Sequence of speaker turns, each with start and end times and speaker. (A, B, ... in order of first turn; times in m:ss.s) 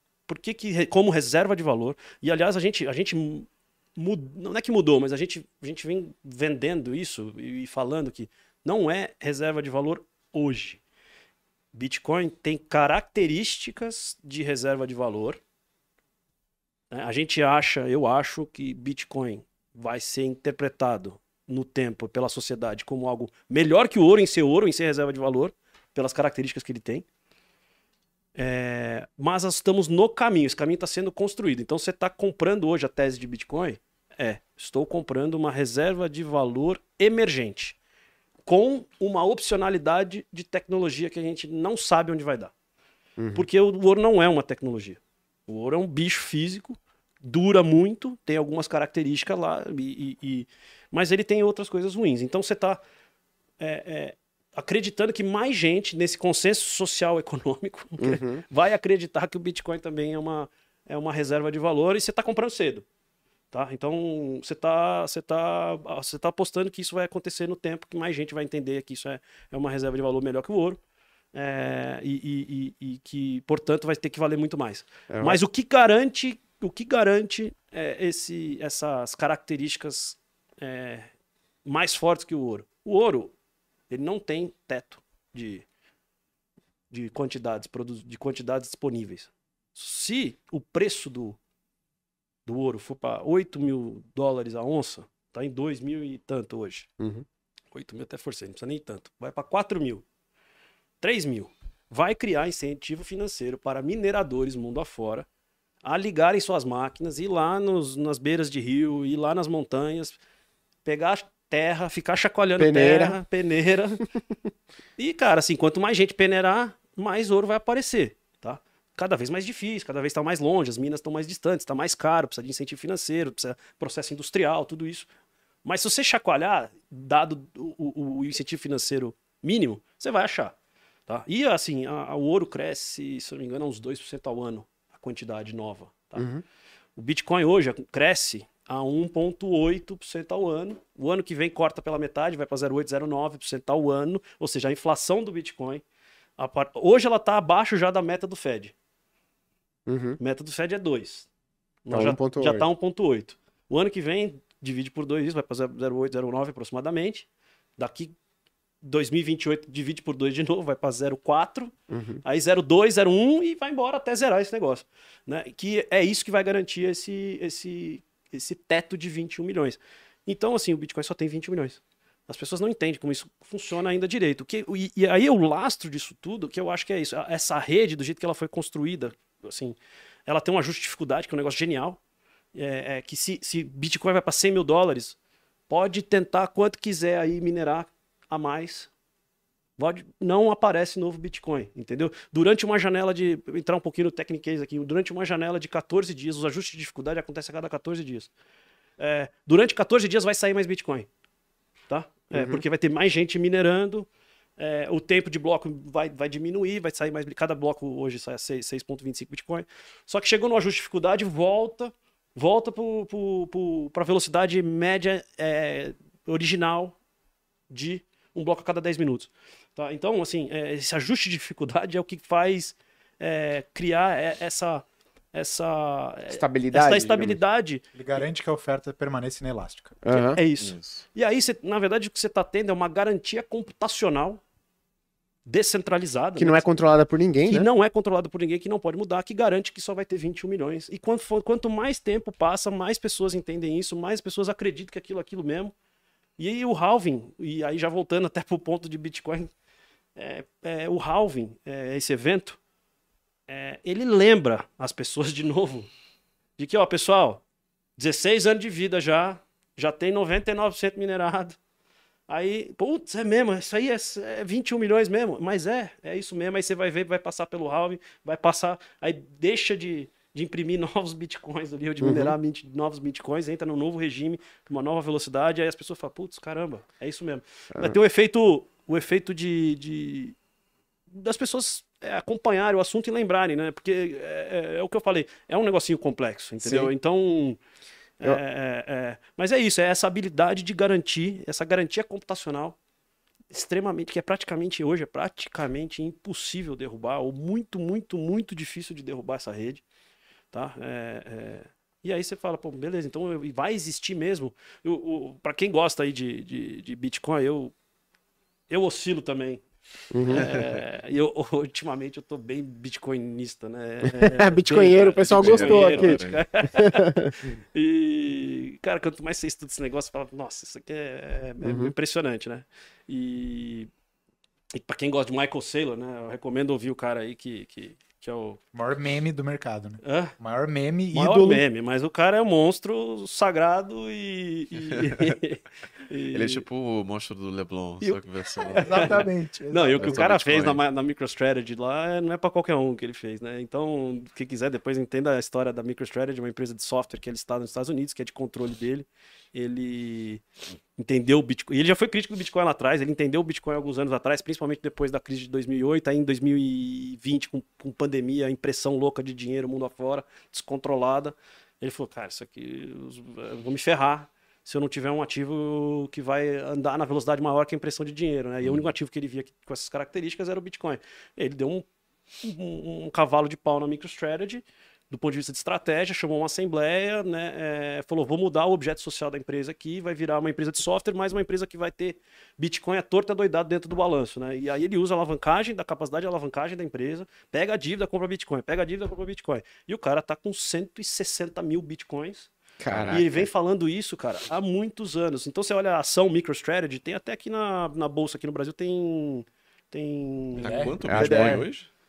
0:00.3-0:10.8 A
0:11.7-0:15.4 A
0:16.9-0:27.0 A
0:28.4-0:37.8 A
0:38.4-0:42.5 A
0:43.2-0:43.5 B
0:43.3-0:52.8 A
0:53.6-1:02.8 A
0:58.0-0:58.4 B
1:03.5-1:10.8 A
1:11.3-1:21.1 A
1:15.1-1:15.4 B
1:21.6-1:23.3 A
1:23.9-1:25.6 A
1:26.9-1:31.4 A
1:32.4-1:36.9 A
1:37.0-1:37.2 B
1:37.7-1:40.0 A
1:41.0-1:45.3 A
1:45.8-1:50.2 A
1:50.8-1:54.0 A
1:52.6-1:53.2 B
1:55.0-2:05.1 A
2:05.6-2:10.6 A
2:11.1-2:16.2 A
2:16.2-2:16.4 B
2:17.0-2:25.8 A
2:26.4-2:28.7 A
2:29.9-2:30.2 B
2:30.2-2:31.3 A
2:31.8-2:38.1 A
2:31.9-2:32.7 B
2:38.8-3:02.0 A
2:41.9-2:42.2 B
3:02.5-3:05.2 A
3:05.7-3:08.9 A
3:09.8-3:18.3 A
3:19.0-3:21.1 A
3:21.9-3:37.0 A
3:22.3-3:22.6 B
3:37.7-3:47.8 A
3:46.3-3:47.4 B
3:47.9-3:50.0 C
3:50.0-3:50.4 B
3:50.1-3:54.4 A
3:50.6-3:51.0 D
3:55.4-3:56.6 A
3:56.4-3:57.7 B
3:57.5-4:05.7 A
4:06.4-4:09.5 A
4:10.2-4:12.6 A
4:13.5-4:15.9 A
4:16.6-4:17.4 A
4:18.0-4:21.6 A
4:22.3-4:40.4 A
4:32.0-4:32.4 B
4:41.1-4:47.6 A
4:46.6-4:46.9 B
4:48.2-4:52.8 A
4:53.5-4:59.8 A
5:00.5-5:07.7 A
5:08.7-5:09.6 A
5:10.1-5:10.8 B
5:10.2-5:23.9 A
5:14.0-5:17.4 B
5:15.1-5:16.4 D
5:21.6-5:21.9 B
5:24.7-5:28.6 A
5:28.7-5:31.6 C
5:30.0-5:30.4 A
5:31.1-5:36.6 A
5:34.9-5:35.4 D
5:36.3-5:39.3 D
5:38.0-5:50.4 A
5:38.7-5:40.3 C
5:39.9-5:40.8 D
5:51.0-6:11.9 A
6:12.4-6:32.5 A
6:32.8-6:33.5 B
6:32.9-6:33.2 D
6:33.1-6:41.5 A
6:40.6-6:41.9 D
6:40.6-6:41.4 C
6:41.1-6:41.6 B